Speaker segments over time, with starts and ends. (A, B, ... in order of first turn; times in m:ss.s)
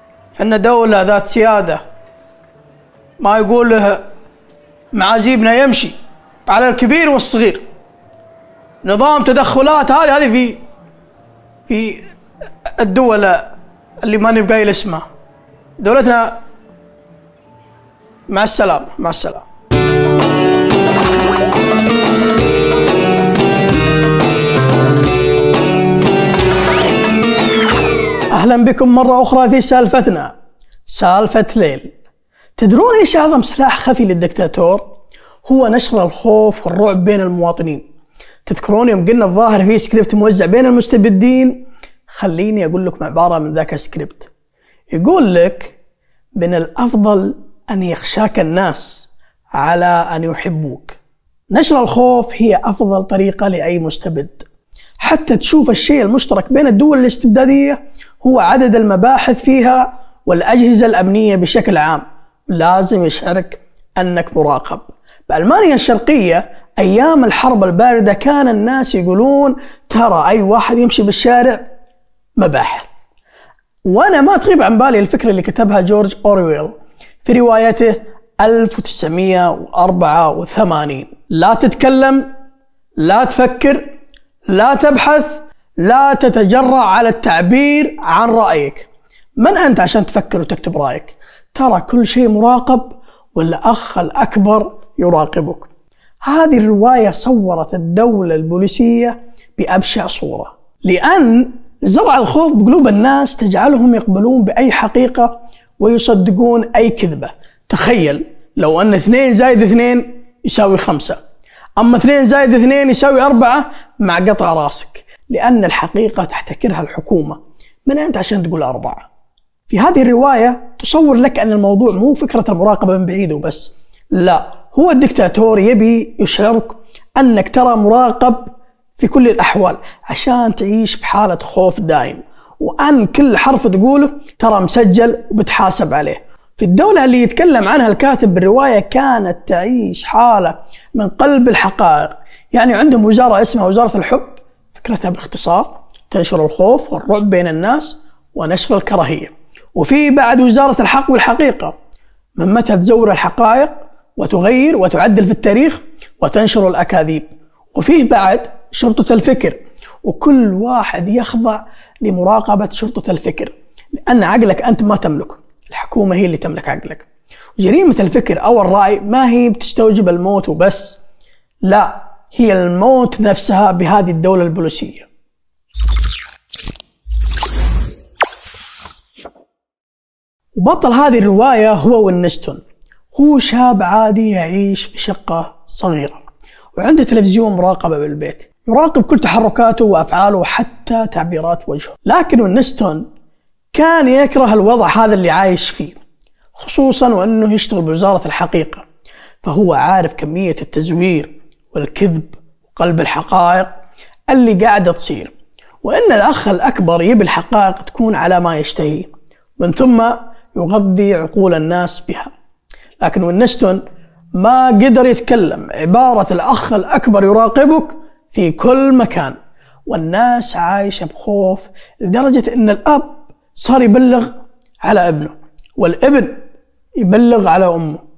0:00.4-0:01.8 A
0:03.2-0:04.0 A
0:04.9-0:05.9 A
0:06.5-0:07.6 A
0:08.8-0:10.6 A
0:11.7-0:12.0 A
0:12.8-0:13.5 A
0:14.0-0:15.0 A
0:15.8-0:16.4 A
0:18.3-0:19.4 A
0:28.3-0:30.3 A
0:30.9-0:31.9 A
0:32.6-0:34.8 A
0:35.4-0:37.8 A
0:38.4-0:44.3 A
0:44.9-0:45.8 A
0:46.4-0:51.0 A
0:51.5-0:54.4 A
0:55.0-1:11.6 A
1:12.4-1:12.9 A
1:13.9-1:16.7 A
1:17.2-1:22.2 A
1:23.0-1:23.8 A
1:24.5-1:28.9 A
1:29.4-1:35.7 A
1:36.2-1:51.2 A
1:51.8-1:59.0 A
1:59.7-2:31.7 A
2:32.4-2:47.0 A
2:47.6-2:51.0 A
2:51.6-2:55.1 A
3:00.6-3:02.6 A
3:03.1-3:06.2 A
3:06.8-3:13.0 A
3:13.7-3:16.0 A
3:16.6-3:18.8 A
3:19.4-3:23.7 A
3:24.3-3:25.3 A
3:25.8-3:32.3 A
3:33.0-3:33.8 A
3:34.4-3:39.3 A
3:39.9-3:44.3 A
3:44.8-3:46.4 A
3:47.0-3:48.0 A